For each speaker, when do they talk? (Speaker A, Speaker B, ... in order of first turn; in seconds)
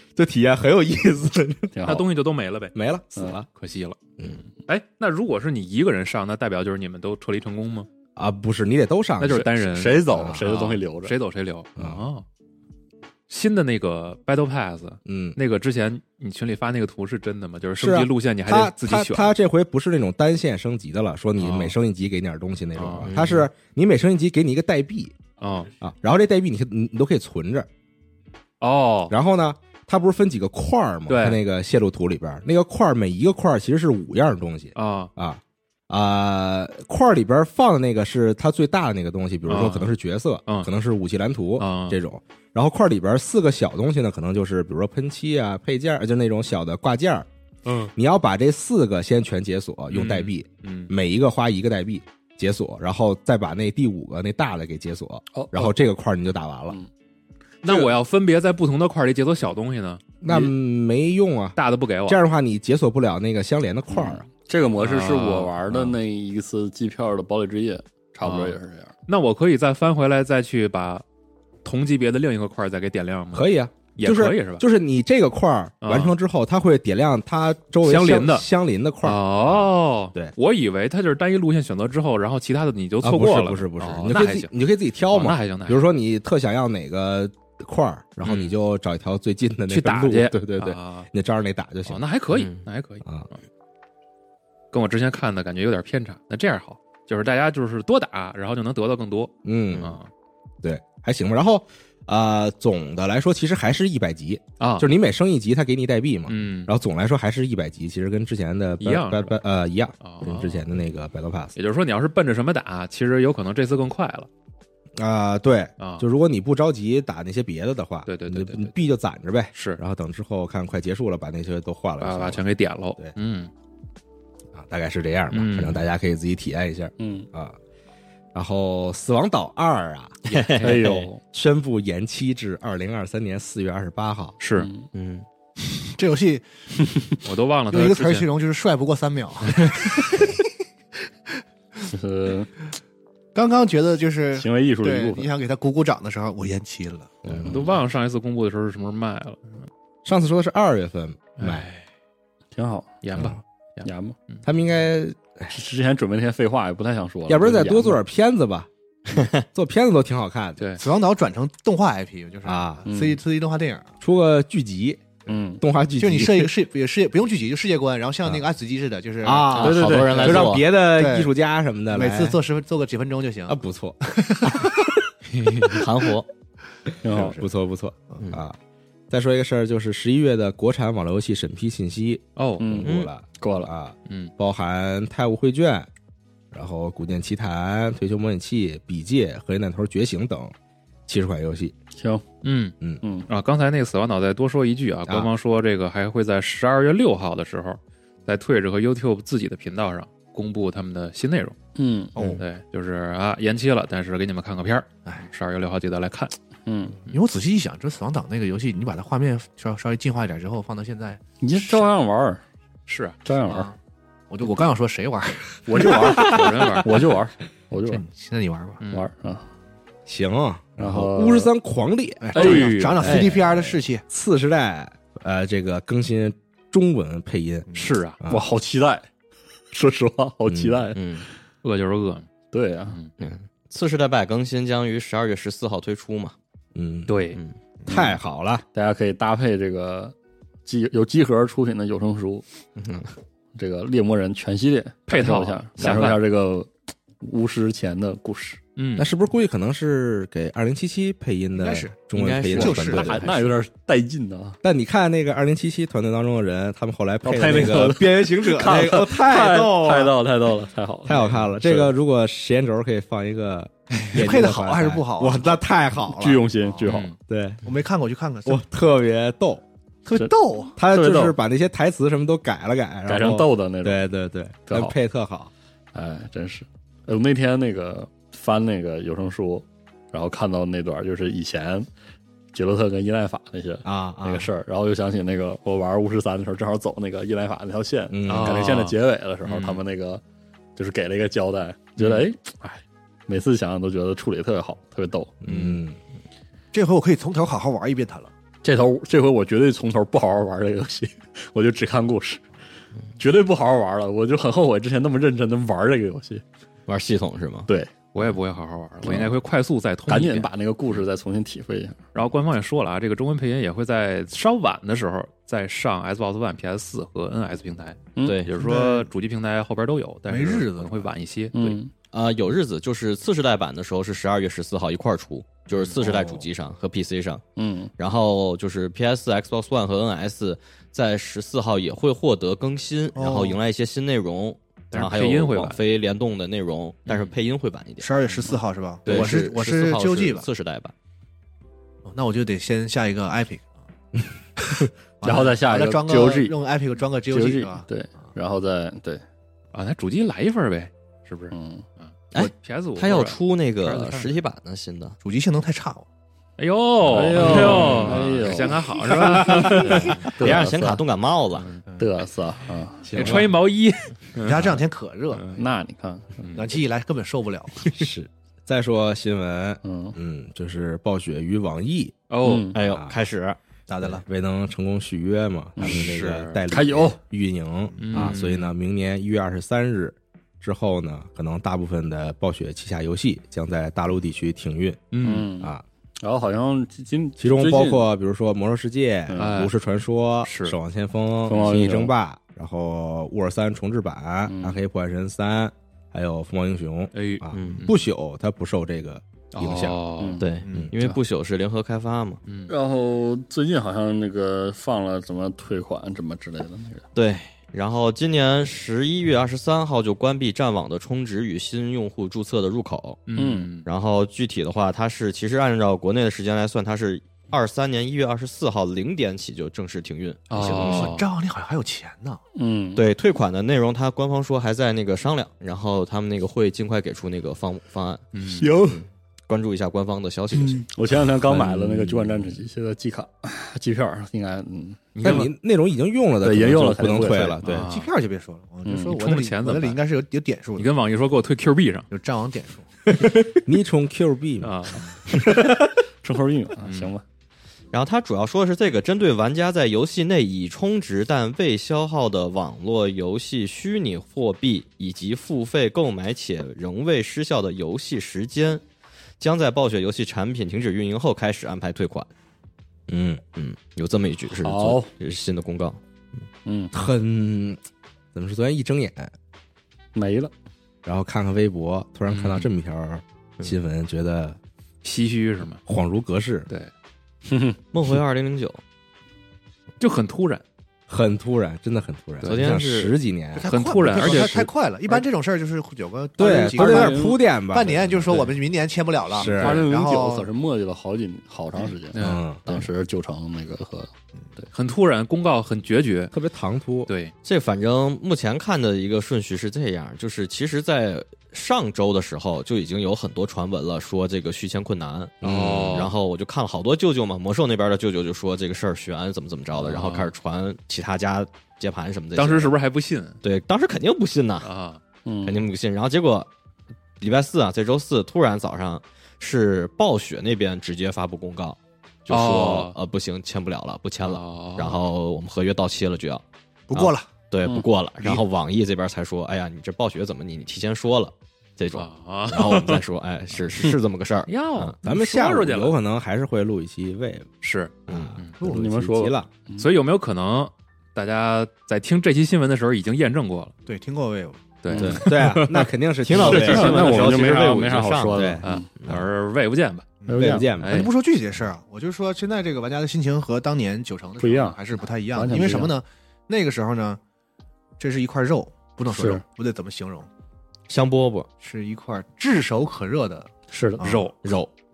Speaker A: 0.1-1.8, 2.7-3.5, 8.2-9.5, 10.1-10.4, 11.8-12.0, 15.1-15.4, 17.8-25.1, 25.8-27.7, 29.1-47.3, 48.0-56.8, 60.2-64.2, 65.7-66.0, 73.3-80.3, 83.0-92.0, 99.4-100.0, 100.6-111.5, 115.0-122.4, 124.5-127.6, 128.3-134.4, 147.2-147.7, 150.0-151.7, 154.4-155.5, 157.3-158.7, 159.5-160.6, 162.4-162.9, 164.0-166.5, 169.2-172.4, 173.5-174.9, 177.1-178.6, 179.1-182.2, 182.7-185.9, 186.5-190.5, 191.1-191.7, 220.1-222.5, 223.1-223.4, 224.1-227.7, 228.2-228.5, 230.5-230.8, 236.7-237.2, 237.9-238.6, 249.0-253.2, 254.6-260.1, 261.1-266.5, 267.3-267.6, 268.4-269.6, 270.8-275.5, 283.8-284.5, 288.1-288.6, 295.4-296.0, 363.0-363.5, 367.9-372.1, 372.7-373.1, 374.0-385.8, 387.4-400.0, 431.7-432.1, 435.2-437.9, 443.1-444.8, 445.3-445.7, 463.1-463.4, 466.9-467.8, 468.3-469.3, 471.0-474.6, 475.9-476.7, 481.1-484.5, 486.4-488.4, 489.3-489.9, 492.2-492.9, 496.3-497.1, 505.4-506.1, 535.0-537.5, 538.1-539.5, 545.1-547.4, 548.3-548.6, 550.3-551.1
Speaker B: 1.7-2.1, 9.4-11.1, 55.3-55.7, 63.9-68.9, 127.0-127.3, 130.6-131.2, 134.6-134.9, 141.9-142.5, 144.3-145.3, 152.5-153.0, 153.8-154.2, 155.5-158.0, 162.8-163.2, 165.3-165.6, 169.6-170.4, 177.0-177.4, 182.6-183.7, 191.9-192.2, 193.0-193.3, 201.8-202.1, 206.7-207.0, 211.4-212.4, 213.2-213.7, 215.7-218.0, 218.9-219.4, 220.8-221.5, 222.3-223.3, 228.3-229.1, 229.7-231.0, 232.5-233.0, 238.7-240.1, 240.7-242.4, 243.6-246.7, 247.2-248.6, 252.9-254.6, 257.2-261.9, 266.1-267.1, 270.1-271.3, 273.1-274.0, 274.7-274.9, 275.9-281.9, 282.5-290.2, 290.8-295.4, 298.6-302.4, 303.2-306.4, 309.0-309.4, 310.1-312.0, 318.1-318.4, 321.5-321.9, 327.6-327.9, 345.2-346.5, 347.3-349.2, 351.5-351.8, 357.1-361.0, 362.0-363.5, 365.6-366.4, 369.8-370.1, 372.4-372.7, 375.8-376.1, 376.7-377.2, 385.2-388.0, 389.3-389.6, 391.4-392.1, 394.5-394.8, 400.2-400.5, 402.7-407.0, 413.3-413.8, 422.6-423.0, 428.6-429.0, 430.5-435.5, 436.4-437.7, 438.8-439.1, 445.3-447.2, 464.6-465.1, 466.6-466.9, 470.1-470.5, 477.4-477.8, 486.4-487.4, 489.4-494.7, 515.2-515.6, 538.6-539.9, 544.9-545.3, 546.4-548.9, 550.3-550.8, 554.4-554.8, 555.3-555.9, 559.1-559.4, 563.7-564.0
Speaker C: 1.8-2.7, 3.5-7.9, 9.2-12.2, 13.3-19.3, 21.4-21.7, 22.7-23.4, 25.4-25.7, 28.6-29.1, 31.1-31.4, 34.7-35.1, 39.5-39.9, 40.5-40.7, 41.6-42.0, 47.6-47.9, 49.9-50.9, 57.6-60.0, 61.5-62.2, 64.8-65.5, 68.2-68.5, 69.1-71.0, 71.6-74.6, 75.8-76.1, 77.8-78.5, 79.0-84.5, 85.1-85.8, 88.2-88.5, 89.7-91.1, 91.8-93.0, 94.7-100.1, 104.6-104.9, 106.3-106.7, 108.8-109.4, 110.0-110.7, 111.5-114.3, 115.8-116.0, 118.0-118.7, 119.5-119.8, 122.0-123.5, 125.3-125.8, 134.4-134.7, 137.2-138.3, 147.4-149.7, 151.4-151.8, 153.0-154.4, 160.6-160.8, 182.3-182.8, 184.1-184.3, 192.4-192.7, 193.3-201.6, 202.2-206.3, 212.9-213.2, 216.2-216.9, 222.3-223.2, 227.7-228.2, 231.6-232.3, 237.1-237.4, 245.1-246.2, 248.8-249.1, 266.8-267.2, 288.2-289.8, 292.0-292.2, 308.1-310.5, 312.1-321.8, 334.9-335.8, 337.1-337.3, 349.7-354.4, 356.6-360.4, 361.6-361.8, 363.1-364.7, 365.3-365.6, 366.4-366.7, 372.3-372.7, 375.8-376.6, 378.0-378.7, 385.1-385.5, 389.4-389.7, 390.4-390.8, 397.1-398.0, 399.5-400.4, 402.4-402.7, 413.3-413.9, 420.5-421.3, 428.3-428.7, 435.1-435.5, 437.6-438.1, 439.1-440.0, 440.8-442.1, 444.6-445.2, 446.8-447.1, 472.3-472.7, 475.0-475.8, 480.0-480.6, 482.4-482.8, 483.7-484.7, 492.1-492.4, 494.7-496.3, 497.1-497.3, 505.4-506.1, 509.8-510.3, 512.3-513.4, 514.6-515.0, 522.3-523.0, 524.2-525.0, 531.9-533.0, 534.5-536.0, 537.6-538.6, 539.8-543.7, 544.8-545.2, 548.6-550.1, 550.8-551.1, 564.0-564.3
Speaker D: 23.1-23.4, 92.3-92.7, 130.3-130.7, 134.9-135.2, 159.1-159.4, 169.5-170.7, 175.8-176.3, 182.8-183.1, 230.9-231.3, 233.2-236.3, 242.8-243.1, 252.1-253.4, 306.9-307.7, 318.2-318.5, 322.1-327.4, 328.0-338.1, 339.0-340.9, 352.3-355.2, 360.3-361.8, 372.7-373.6, 397.5-397.9, 400.4-402.4, 407.1-413.3, 413.8-421.1, 422.9-430.9, 447.9-458.8, 459.4-462.3, 463.5-466.0, 477.9-478.8, 482.4-483.1, 497.4-512.7, 513.4-514.7, 515.4-516.5, 517.2-535.0, 538.1-538.4, 545.0-545.3, 546.2-549.2, 560.9-561.5, 564.4-564.7
Speaker E: 135.8-136.4, 137.7-140.3, 143.3-147.4, 160.8-163.9, 166.0-171.3, 171.9-174.9, 202.2-202.4, 207.1-211.2, 213.4-213.8, 214.3-216.3, 217.9-218.8, 222.2-224.0, 251.6-251.9, 252.6-253.3, 264.1-265.6, 266.6-266.9, 267.6-268.6, 270.1-270.8, 296.7-298.3, 318.5-319.1, 320.3-321.1, 326.0-326.4, 333.1-333.6, 338.0-340.5, 342.1-343.7, 345.2-348.3, 355.2-356.0, 357.7-358.1, 361.9-362.2, 364.4-365.5, 366.5-367.8, 373.9-374.2, 378.0-378.3, 400.6-401.1, 420.7-422.4, 437.8-440.9, 442.1-442.9, 483.5-490.5, 526.9-527.3, 543.9-544.7, 550.2-557.2, 558.0-560.3, 561.6-564.3